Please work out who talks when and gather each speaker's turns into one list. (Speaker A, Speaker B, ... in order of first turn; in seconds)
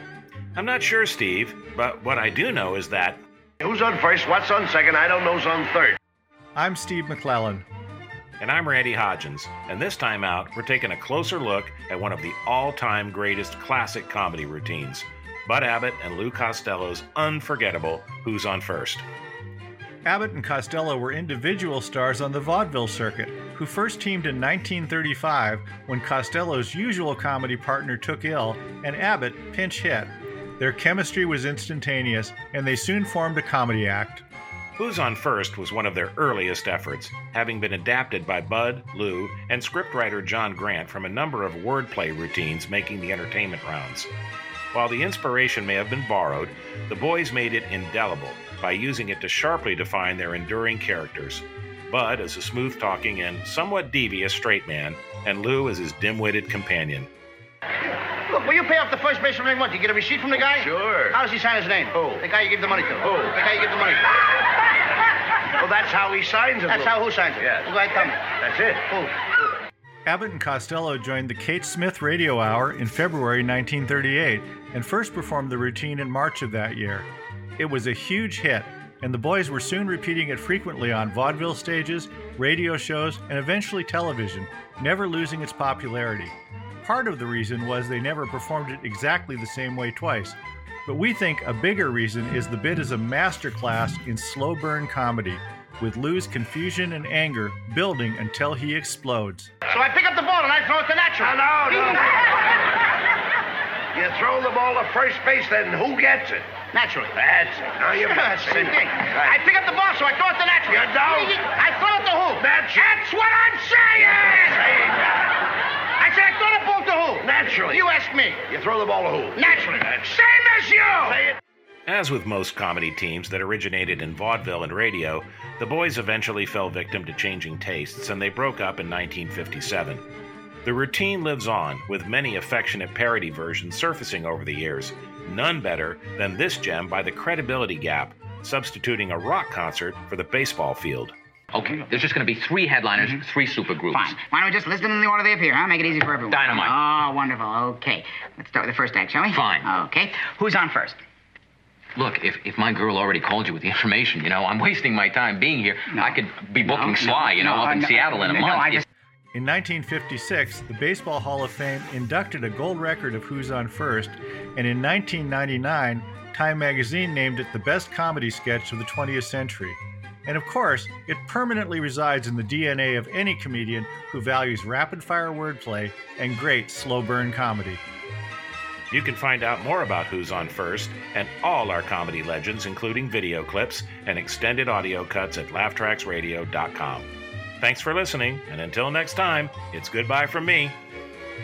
Speaker A: 0.6-3.2, 8.4-19.1, 34.8-44.1, 44.7-57.1, 121.9-130.0, 130.6-141.1, 178.9-187.1, 187.6-190.8
Speaker B: 3.6-6.0, 60.5-61.2, 61.9-62.3, 63.0-63.4, 65.6-67.7, 68.3-68.9, 101.2-102.3, 103.9-106.6, 107.2-109.4, 110.7-111.5, 112.4-115.1, 117.2-117.9, 118.5-121.4
Speaker C: 6.6-7.7, 20.1-34.2, 70.1-99.5, 159.3-177.8
Speaker D: 58.1-64.1, 66.7-68.3, 68.9-69.2, 99.7-102.1, 106.7-107.2, 108.0-112.8, 114.1-114.7, 116.0-118.5, 119.4-121.2
Speaker E: 141.5-144.1, 146.3-146.7, 149.3-149.7, 151.9-158.8
Speaker F: 143.9-151.0, 155.9-158.8